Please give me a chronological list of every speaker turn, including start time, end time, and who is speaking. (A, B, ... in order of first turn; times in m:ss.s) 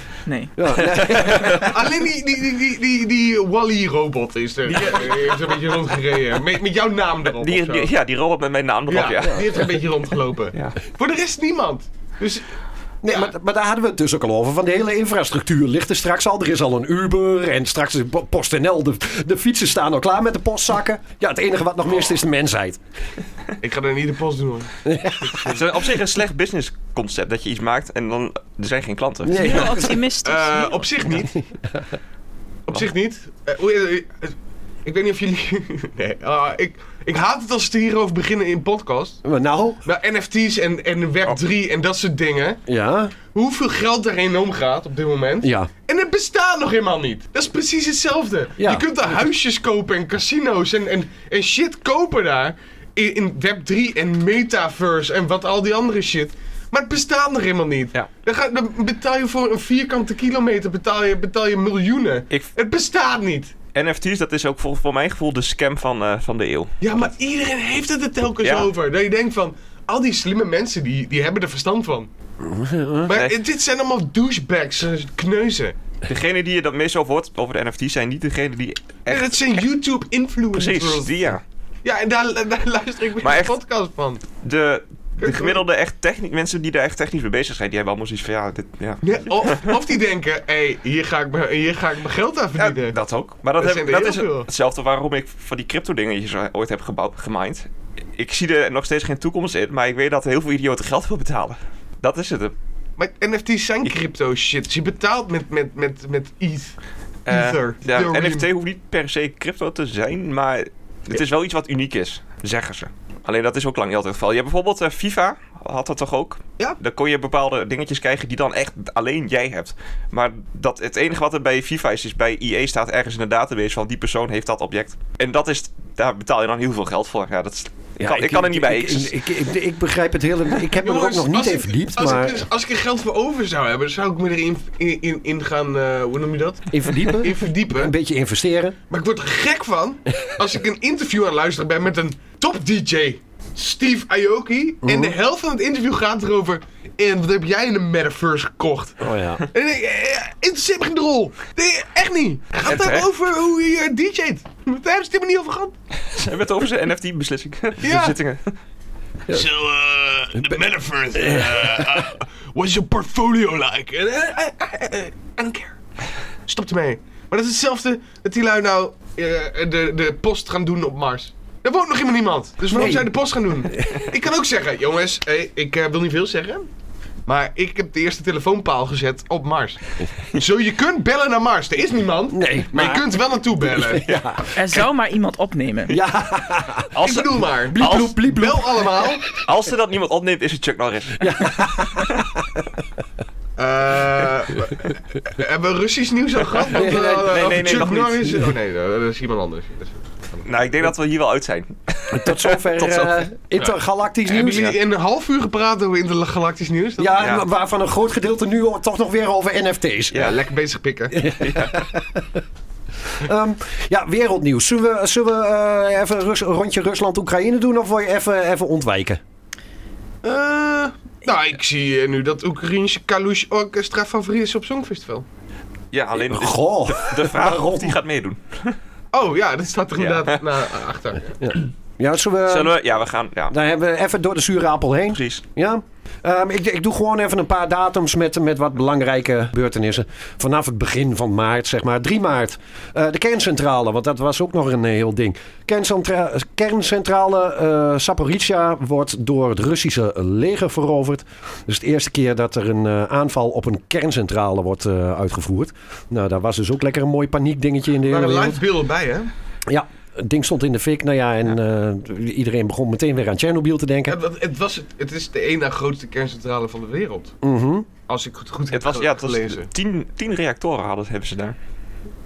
0:00.2-0:00.5 A
0:00.6-0:01.8 B
0:00.9-0:01.7 C
0:01.5-0:07.9 D
0:07.3-0:09.8 C
0:08.9-0:12.5 D
0:13.0-0:22.8 B
0:13.1-0:13.3 D
0:23.6-0:24.7 D
0:24.8-0:25.6 B
0:25.4-0:29.8 C
0:29.2-0:30.0 B
0:29.3-0:30.9 A
0:30.2-0:31.3 D
0:31.2-0:31.8 B
0:32.7-0:39.2 D
0:39.2-0:39.8 B
0:39.8-0:42.6 D
0:42.7-0:43.1 B
0:43.2-1:03.5 D
0:45.4-0:45.7 B
0:48.6-0:48.8 B
1:03.7-1:07.0 C
1:06.8-1:12.1 D
1:08.4-1:08.7 C
1:12.4-1:13.2 B
1:13.1-1:15.8 D
1:16.0-1:19.7 C
1:19.1-1:21.2 D
1:20.5-1:21.4 C
1:21.8-1:24.2 D
1:23.2-1:23.6 C
1:24.4-1:29.7 C
1:25.2-1:25.6 D
1:29.0-1:33.0 D
1:32.6-1:42.5 C
1:33.6-1:34.5 D
1:43.0-1:46.7 D
1:47.2-2:09.2 C
1:47.3-1:48.5 D
2:08.0-2:12.5 B
2:10.8-2:17.9 D
2:16.7-2:18.8 B
2:18.9-2:35.7 D
2:24.8-2:25.2 B
2:29.0-2:29.4 B
2:32.6-2:33.1 C
2:36.1-2:38.5 C
2:37.8-2:38.2 D
2:39.3-2:45.8 D
2:41.1-2:42.1 B
2:46.5-2:56.7 D
2:52.7-2:53.1 B
2:57.2-2:59.8 D
3:00.3-3:04.1 D
3:02.3-3:04.8 B
3:04.5-3:06.0 A
3:05.9-3:09.2 B
3:06.9-3:08.1 C
3:07.0-3:09.2 D
3:09.3-3:12.2 C
3:11.2-3:12.7 B
3:13.6-3:20.4 D
3:16.7-3:17.8 B
3:16.8-3:18.4 C
3:20.4-3:23.7 C
3:22.1-3:24.7 B
3:24.3-3:27.2 D
3:24.5-3:24.8 C
3:27.0-3:30.3 B
3:27.2-3:27.4 C
3:30.1-3:30.4 C
3:30.1-3:31.2 D
3:31.1-3:32.4 B
3:31.4-3:31.8 C
3:33.1-3:39.2 B
3:40.2-3:45.2 D
3:45.9-3:48.8 C
3:46.1-3:48.0 B
3:49.1-3:51.3 D
3:50.0-3:50.4 C
3:51.4-3:52.7 B
3:52.5-3:53.5 C
3:53.5-4:18.6 B
3:55.1-3:55.4 C
4:18.0-4:19.3 D
4:19.7-4:24.2 B
4:24.1-4:27.3 D
4:27.4-4:27.9 B
4:28.1-4:29.7 D
4:28.7-4:31.6 C